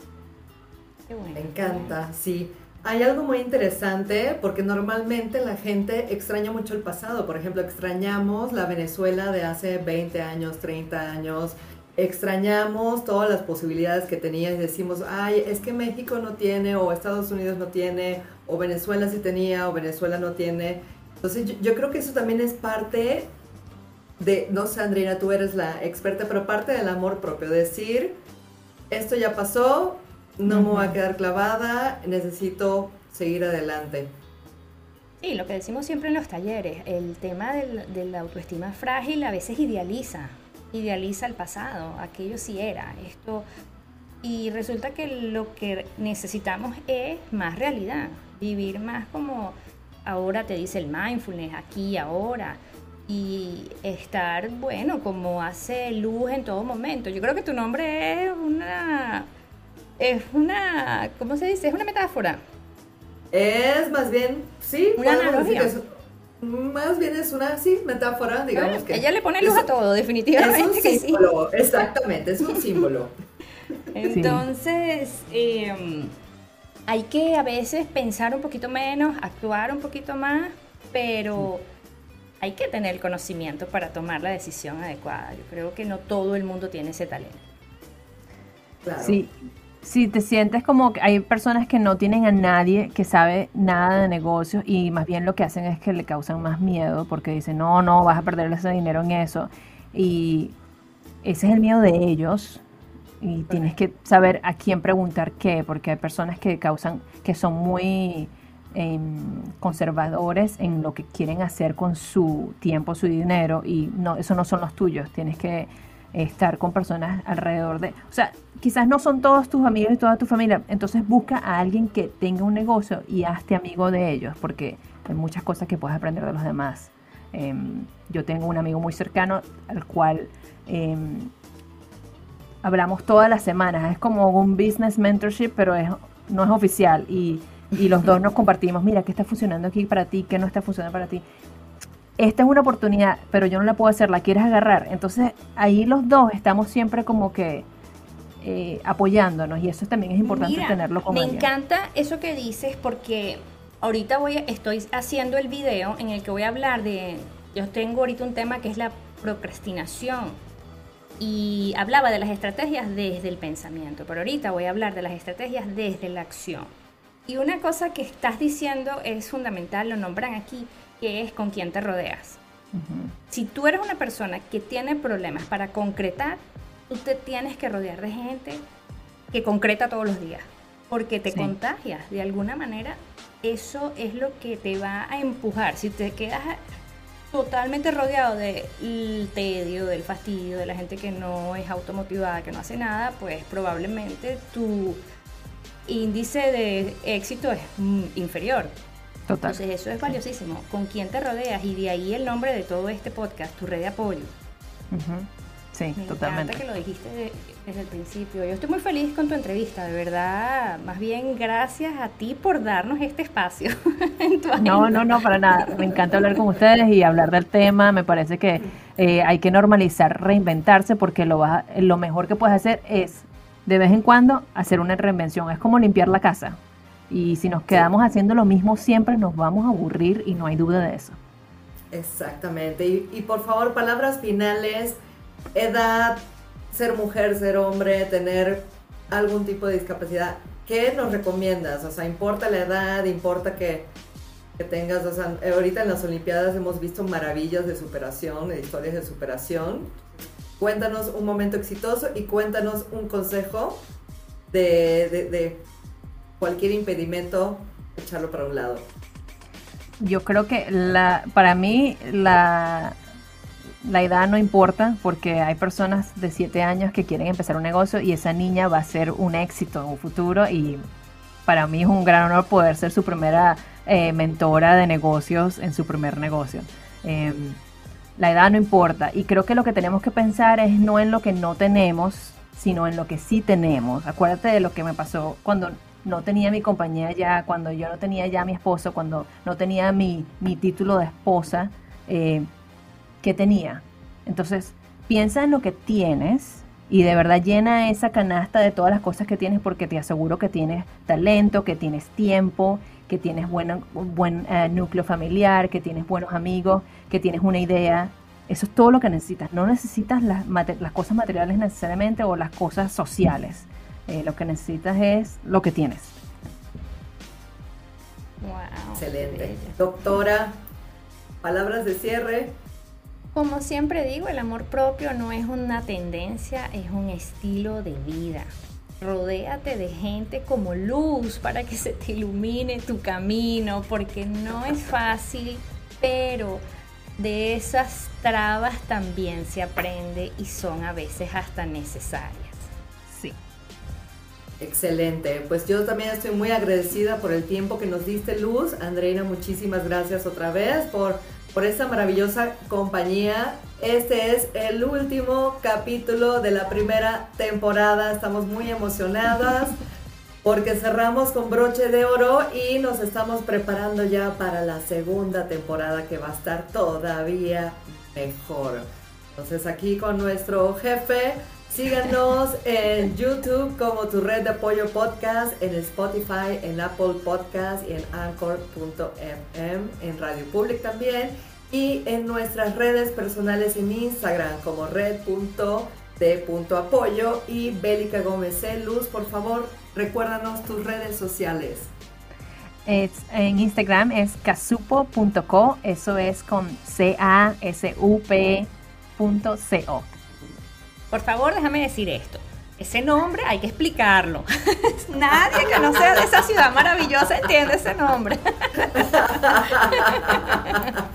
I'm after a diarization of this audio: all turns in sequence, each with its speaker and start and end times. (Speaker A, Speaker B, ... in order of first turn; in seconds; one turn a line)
Speaker A: 1.1-2.0
Speaker B: 1.4-23.3
Speaker B: 24.2-28.2
Speaker B: 28.9-34.1
Speaker C: 30.5-31.0
Speaker A: 35.2-43.5
Speaker A: 44.2-59.3
Speaker A: 60.0-62.4
Speaker B: 63.3-65.9
Speaker A: 65.0-65.7
Speaker B: 66.4-69.7
Speaker A: 68.5-71.2
Speaker B: 70.4-73.1
Speaker A: 73.9-76.1
Speaker C: 74.1-74.5
Speaker A: 76.9-81.6
Speaker A: 82.4-87.4
Speaker B: 88.8-89.2
Speaker C: 89.0-100.5
Speaker C: 101.2-102.6
Speaker C: 103.2-131.3
Speaker C: 132.6-141.2
Speaker C: 142.2-147.7
Speaker C: 148.4-151.5
Speaker A: 150.2-160.4
Speaker A: 161.2-166.7
Speaker A: 167.3-172.4
Speaker C: 172.7-173.2
Speaker A: 173.3-178.6
Speaker A: 179.3-186.6
Speaker A: 187.3-195.0
Speaker A: 195.9-198.7
Speaker C: 199.3-199.6
Speaker A: 199.4-204.3
Speaker C: 204.9-206.6
Speaker A: 206.0-216.4
Speaker C: 214.6-231.2
Speaker B: 231.9-235.0
Speaker B: 235.5-236.2
Speaker B: 236.7-243.9
Speaker B: 244.6-250.0
Speaker B: 250.6-253.8
Speaker B: 254.5-255.6
Speaker B: 256.4-258.9
Speaker C: 260.0-263.0
Speaker C: 263.8-270.8
Speaker C: 271.5-277.6
Speaker C: 278.2-292.5
Speaker C: 293.2-316.2
Speaker A: 318.4-319.8
Speaker B: 319.0-320.6
Speaker B: 321.4-322.6
Speaker A: 323.3-336.6
Speaker A: 337.2-342.7
Speaker C: 343.1-343.4
Speaker B: 344.6-359.8
Speaker B: 360.4-391.9
Speaker C: 392.9-400.1
Speaker A: 401.1-410.9
Speaker B: 405.5-406.4
Speaker B: 409.0-410.8